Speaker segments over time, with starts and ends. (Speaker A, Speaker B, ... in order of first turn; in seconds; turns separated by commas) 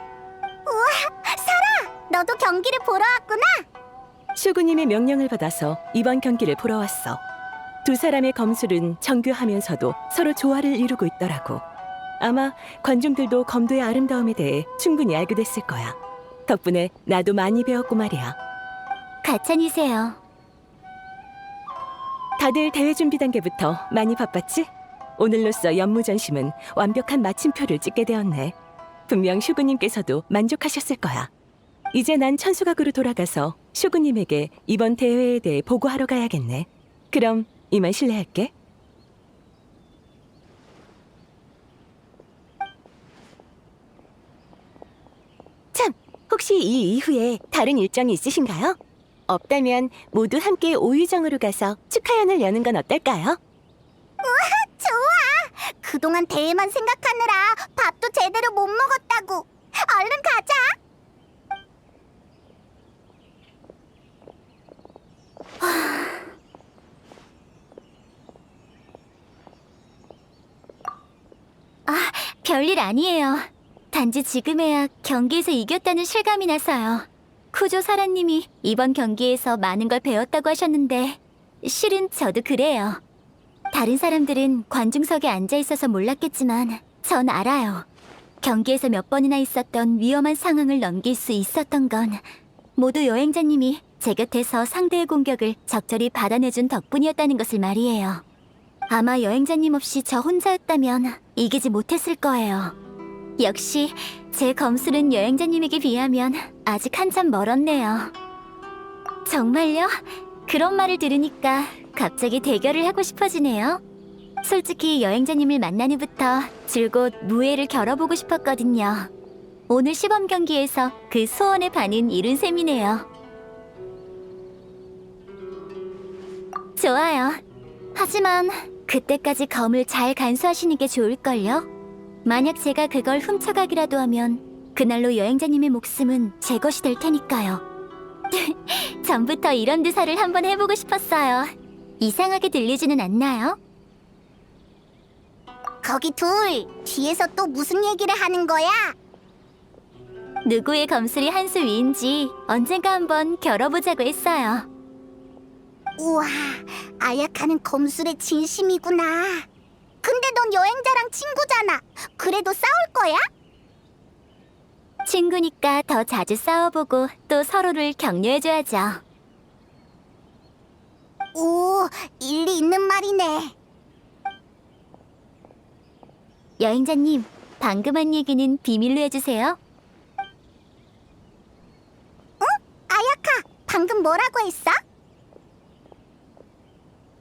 Speaker A: 0.7-3.6, Speaker B: 4.3-7.2, Speaker B: 7.8-11.6, Speaker B: 12.2-18.4, Speaker C: 19.2-20.2, Speaker B: 22.4-28.5, Speaker B: 29.1-31.3, Speaker B: 31.9-38.5, Speaker B: 45.7-48.8, Speaker B: 49.3-53.4, Speaker A: 54.2-60.7, Speaker C: 65.6-66.3, Speaker C: 71.8-83.0, Speaker C: 83.7-87.8, Speaker C: 88.4-92.2, Speaker C: 92.8-98.2, Speaker C: 98.9-102.7, Speaker C: 103.4-108.1, Speaker C: 109.2-113.8, Speaker C: 114.4-119.1, Speaker C: 119.7-123.1, Speaker C: 126.8-127.4, Speaker C: 127.9-131.7, Speaker C: 132.2-137.6, Speaker C: 138.3-143.6, Speaker A: 145.8-148.9, Speaker C: 150.4-154.7, Speaker A: 156.0-159.4, Speaker A: 160.0-163.2, Speaker C: 165.0-169.0, Speaker A: 171.3-173.5, Speaker C: 176.6-179.6, Speaker A: 182.4-184.8